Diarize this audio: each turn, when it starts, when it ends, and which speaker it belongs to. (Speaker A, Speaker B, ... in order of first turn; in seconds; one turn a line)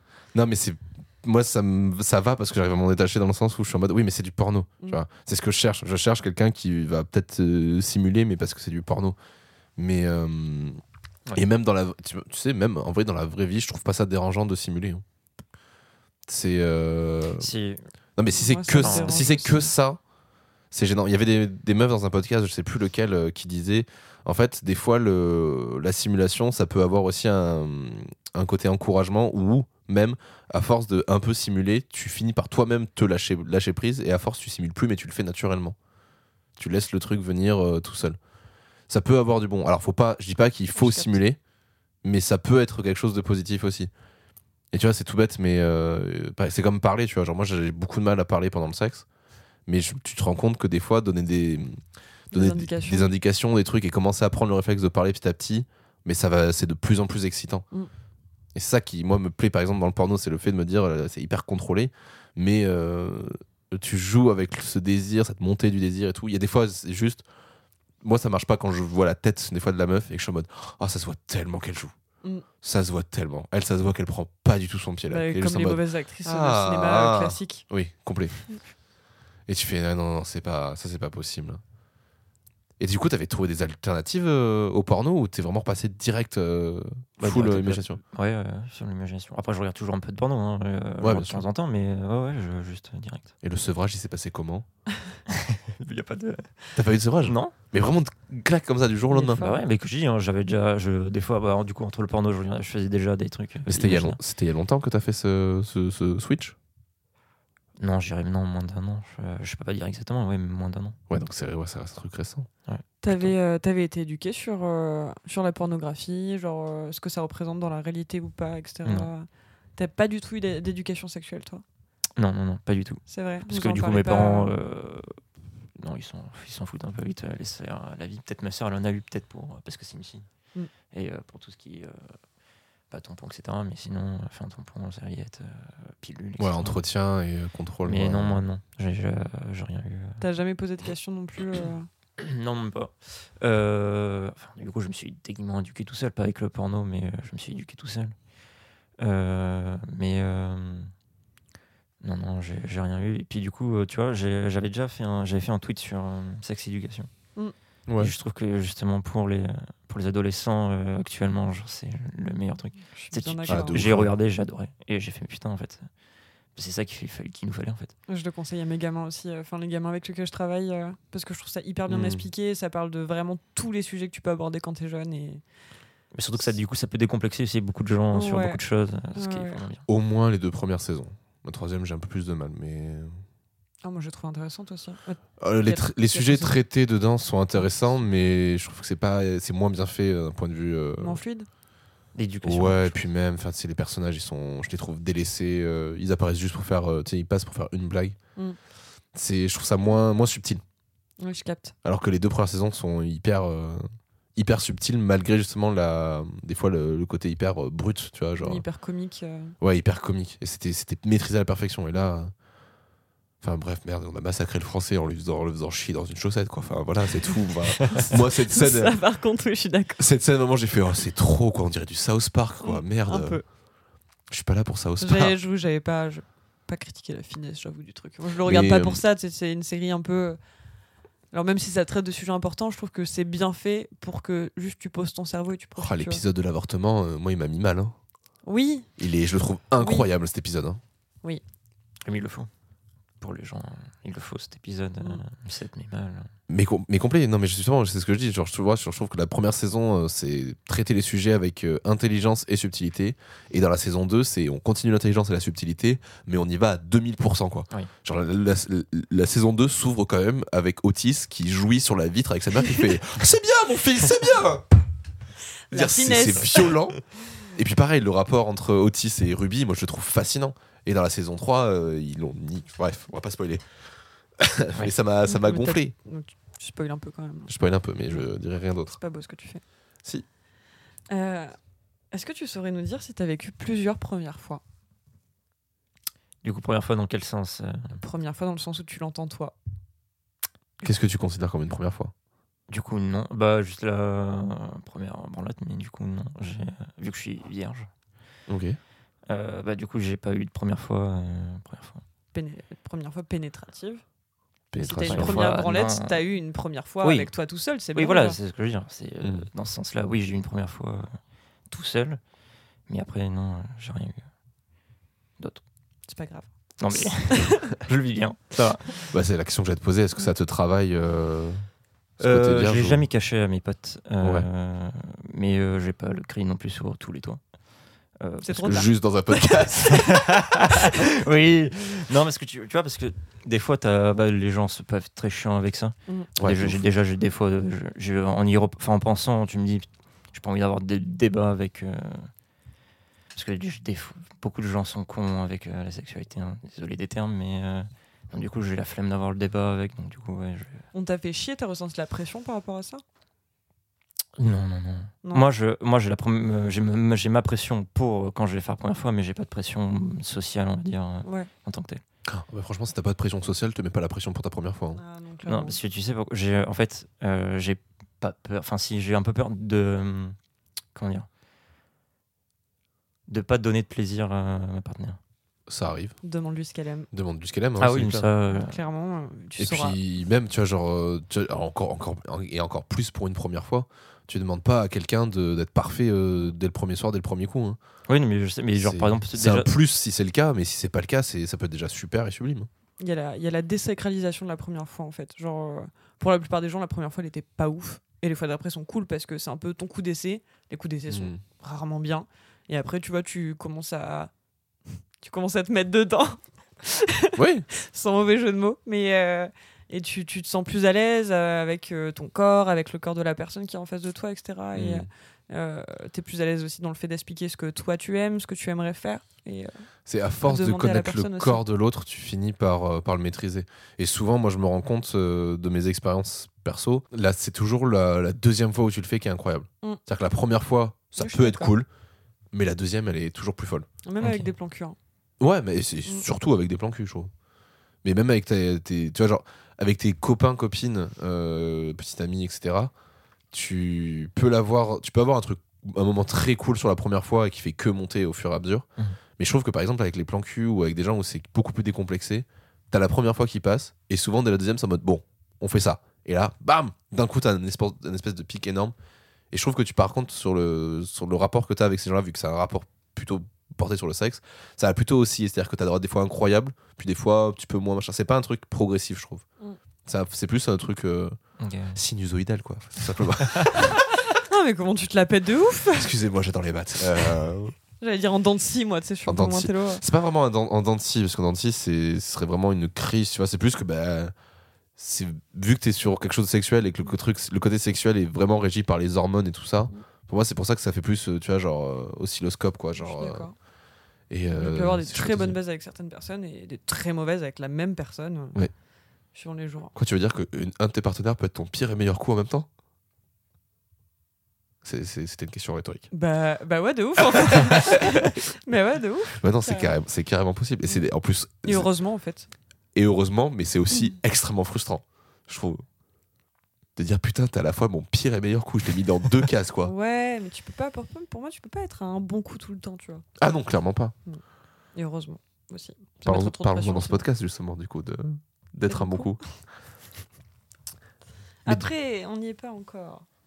Speaker A: 0.3-9.2
Speaker A: 9.8-10.8
Speaker A: 11.3-15.0
Speaker A: 16.3-17.5
Speaker B: 17.4-17.8
Speaker A: 18.2-20.0
Speaker C: 18.3-19.7
Speaker B: 18.8-19.3
Speaker A: 20.7-35.8
Speaker A: 36.6-38.2
Speaker A: 38.9-41.4
Speaker C: 40.8-41.2
Speaker A: 42.0-43.9
Speaker A: 44.7-49.0
Speaker A: 49.7-51.8
Speaker C: 52.3-53.1
Speaker A: 52.3-57.6
Speaker A: 58.5-67.2
Speaker A: 68.0-71.9
Speaker A: 72.6-78.4
Speaker C: 75.1-77.7
Speaker A: 79.5-81.6
Speaker A: 82.8-88.0
Speaker B: 87.2-93.3
Speaker A: 91.0-91.4
Speaker A: 93.4-94.7
Speaker B: 95.3-96.7
Speaker A: 96.8-99.5
Speaker B: 97.2-97.5
Speaker C: 99.1-99.6
Speaker B: 99.3-104.2
Speaker A: 103.7-106.6
Speaker B: 107.8-111.0
Speaker A: 111.1-112.5
Speaker B: 112.7-113.3
Speaker C: 113.0-121.6
Speaker B: 118.8-119.1
Speaker B: 122.2-125.2
Speaker C: 123.1-124.5
Speaker B: 125.8-130.3
Speaker B: 130.9-132.2
Speaker B: 132.9-136.8
Speaker A: 136.4-138.4
Speaker B: 137.9-140.2
Speaker C: 140.2-141.9
Speaker B: 142.2-148.2
Speaker B: 149.0-150.9
Speaker B: 152.0-157.1
Speaker A: 157.9-158.1
Speaker B: 158.0-165.9
Speaker C: 163.0-163.8
Speaker A: 163.5-164.1
Speaker B: 166.6-167.9
Speaker C: 168.1-175.4
Speaker A: 171.9-172.3
Speaker B: 176.1-179.8
Speaker C: 178.1-178.6
Speaker C: 179.2-179.6
Speaker A: 179.9-183.2
Speaker C: 183.8-186.6
Speaker A: 185.4-191.2
Speaker C: 191.0-191.5
Speaker B: 192.2-193.0
Speaker A: 192.4-198.2
Speaker A: 199.1-200.6
Speaker C: 201.2-201.7
Speaker A: 201.8-203.8
Speaker A: 204.4-208.6
Speaker C: 208.4-209.6
Speaker A: 209.6-212.3
Speaker A: 213.4-219.0
Speaker C: 217.9-220.0
Speaker A: 220.0-223.4
Speaker C: 222.6-223.4
Speaker A: 224.3-225.4
Speaker C: 225.0-230.4
Speaker A: 228.4-229.0
Speaker C: 231.3-236.2
Speaker A: 235.8-237.9
Speaker C: 238.4-238.9
Speaker A: 239.0-240.8
Speaker C: 239.8-240.1
Speaker B: 242.1-242.5
Speaker B: 243.2-246.3
Speaker A: 246.5-264.6
Speaker C: 265.7-266.8
Speaker A: 265.7-267.0
Speaker A: 267.6-273.6
Speaker A: 274.4-275.9
Speaker C: 275.3-277.5
Speaker A: 277.5-279.0
Speaker C: 278.9-279.6
Speaker C: 281.1-281.5
Speaker C: 282.1-284.6
Speaker B: 286.4-288.0
Speaker C: 288.0-289.6
Speaker A: 290.8-292.1
Speaker B: 292.7-297.9
Speaker A: 298.5-298.8
Speaker B: 299.3-302.0
Speaker C: 302.3-304.0
Speaker A: 304.7-305.5
Speaker C: 304.8-308.4
Speaker B: 305.0-306.2
Speaker B: 307.0-307.3
Speaker B: 307.9-311.2
Speaker A: 309.2-309.5
Speaker B: 311.7-312.2
Speaker B: 312.9-314.3
Speaker C: 316.1-317.8
Speaker B: 316.8-319.1
Speaker A: 319.1-321.6
Speaker A: 322.2-323.0
Speaker B: 322.2-327.4
Speaker A: 324.2-324.5
Speaker B: 328.2-328.9
Speaker C: 328.4-328.9
Speaker A: 328.6-330.0
Speaker B: 329.7-342.3
Speaker A: 336.4-336.8
Speaker B: 343.3-350.9
Speaker C: 350.9-353.0
Speaker B: 354.4-362.0
Speaker C: 361.2-361.5
Speaker A: 362.3-365.0
Speaker C: 365.0-365.8
Speaker B: 365.4-370.4
Speaker B: 370.9-371.3
Speaker B: 373.3-375.2
Speaker A: 375.7-376.1
Speaker C: 376.2-377.1
Speaker A: 377.1-378.3
Speaker B: 377.8-378.8
Speaker C: 378.5-380.0
Speaker A: 379.6-387.8
Speaker B: 388.1-389.7
Speaker A: 388.8-392.7
Speaker C: 393.0-404.3
Speaker A: 401.1-401.4
Speaker C: 405.2-419.7
Speaker A: 407.4-407.7
Speaker A: 414.7-415.1
Speaker A: 420.1-431.9
Speaker C: 420.4-421.6
Speaker C: 431.2-431.8
Speaker A: 432.5-433.9
Speaker C: 434.0-435.0
Speaker B: 434.2-434.5
Speaker A: 435.4-437.3
Speaker A: 438.0-442.9
Speaker A: 443.5-458.9
Speaker A: 459.5-469.4
Speaker A: 470.1-471.4
Speaker B: 471.6-472.0
Speaker A: 471.9-474.0
Speaker B: 473.4-473.7
Speaker C: 473.8-476.1
Speaker A: 475.9-477.8
Speaker C: 478.0-480.0
Speaker A: 479.3-484.3
Speaker A: 485.0-493.5
Speaker C: 493.0-493.6
Speaker A: 494.3-495.6
Speaker C: 494.5-498.6
Speaker C: 499.4-499.9
Speaker A: 499.9-502.7
Speaker A: 504.8-506.1
Speaker C: 506.1-510.0
Speaker A: 507.4-508.3
Speaker A: 509.4-511.9
Speaker C: 511.6-512.5
Speaker A: 513.0-515.8
Speaker A: 517.0-519.9
Speaker C: 519.8-523.2
Speaker A: 523.4-524.1
Speaker C: 525.0-527.2
Speaker A: 526.2-529.4
Speaker C: 528.9-529.4
Speaker C: 531.6-533.2